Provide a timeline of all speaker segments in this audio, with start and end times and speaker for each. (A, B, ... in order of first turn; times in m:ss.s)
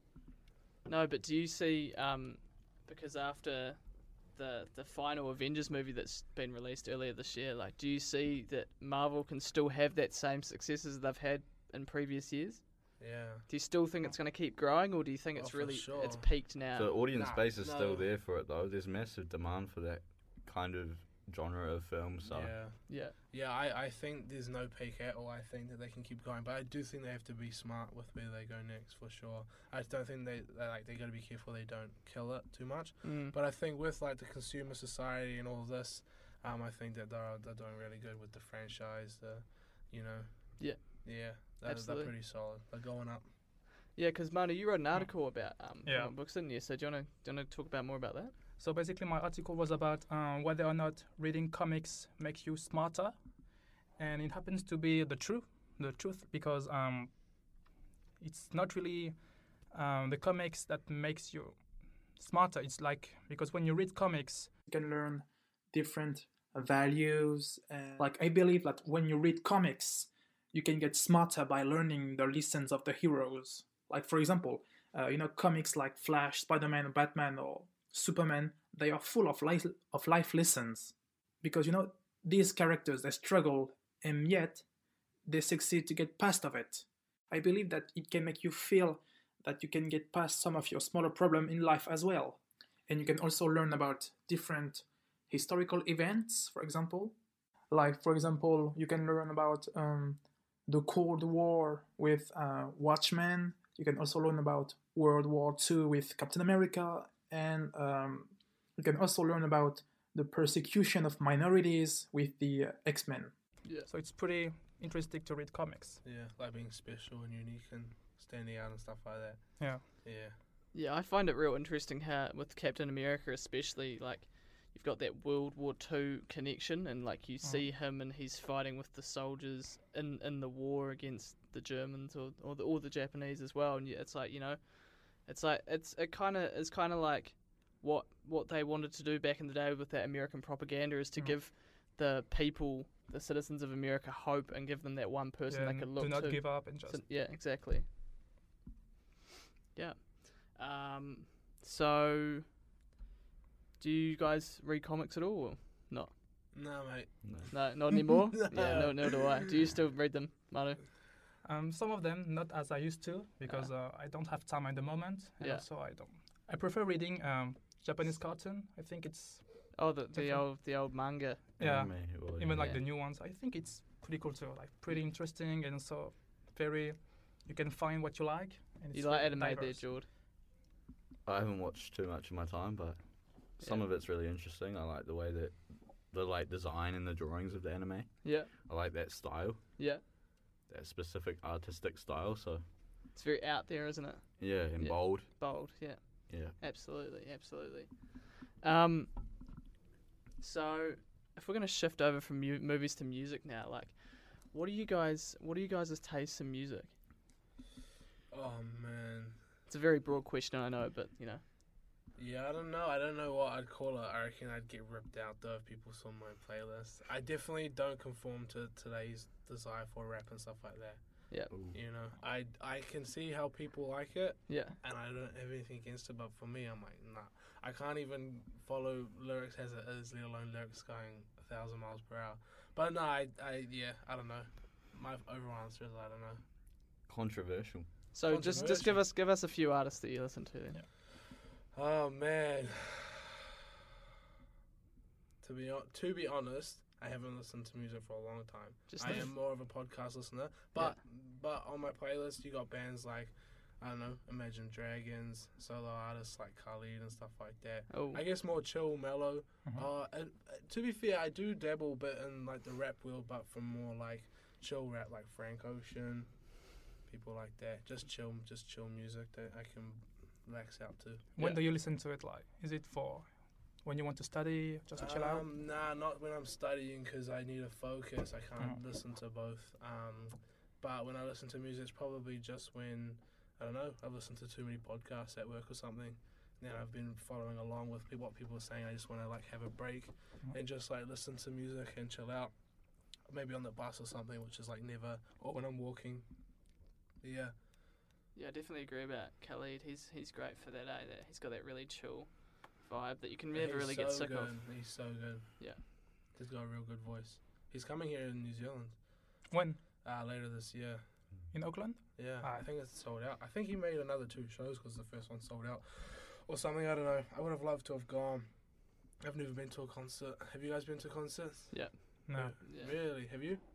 0:00.8-0:16.9 A
0:13.0-0:13.5 B
0:15.4-0:16.4 B
0:16.7-0:22.5 C
0:17.1-0:18.0 B
0:22.2-0:43.2 B
0:22.9-0:23.1 A
0:33.0-0:33.3 A
0:40.6-0:42.1 A
0:43.9-0:48.3 A
0:45.8-0:46.1 D
0:48.6-0:53.2 D
0:54.0-0:57.2 D
0:58.2-1:04.5 D
1:04.7-1:24.6 E
1:25.2-1:37.2 E
1:37.7-1:53.3 E
1:53.9-1:56.0 D
1:56.0-2:00.3 B
1:59.6-1:59.9 D
2:00.7-2:27.8 A
2:25.5-2:27.1 D
2:29.7-2:32.4 A
2:33.8-2:36.1 A
2:36.5-2:39.3 B
2:37.2-2:37.5 C
2:37.5-2:40.8 A
2:41.4-2:50.6 D
2:43.4-2:43.7 A
2:45.4-2:45.7 A
2:49.7-2:51.4 A
2:51.6-2:59.9 D
2:51.6-2:52.7 C
2:52.5-2:52.8 A
2:58.9-3:00.1 A
3:01.2-3:09.7 C
3:08.2-3:08.5 A
3:10.7-3:12.6 C
3:13.1-3:19.1 A
3:14.4-3:15.4 C
3:16.3-3:16.5 C
3:20.4-3:26.9 A
3:28.3-3:29.4 B
3:29.7-3:31.4 A
3:32.2-3:56.4 B
3:41.5-3:41.8 C
3:44.5-3:44.7 A
3:57.1-3:57.9 C
3:58.1-4:00.8 A
3:58.2-3:59.0 B
4:01.7-4:03.3 B
4:05.4-4:26.4 B
4:08.9-4:09.3 A
4:09.0-4:09.4 D
4:17.9-4:18.2 A
4:27.0-4:31.3 B
4:31.3-4:35.4 D
4:35.0-4:52.5 B
4:53.3-4:56.2 B
4:57.2-4:57.5 B
4:58.3-5:04.6 A
5:03.5-5:09.0 B
5:09.5-5:09.8 D
5:10.0-5:11.0 B
5:11.5-5:12.7 D
5:12.1-5:18.5 B
5:19.2-5:21.8 B
5:21.7-5:22.9 A
5:22.3-5:22.6 D
5:22.3-5:23.6 B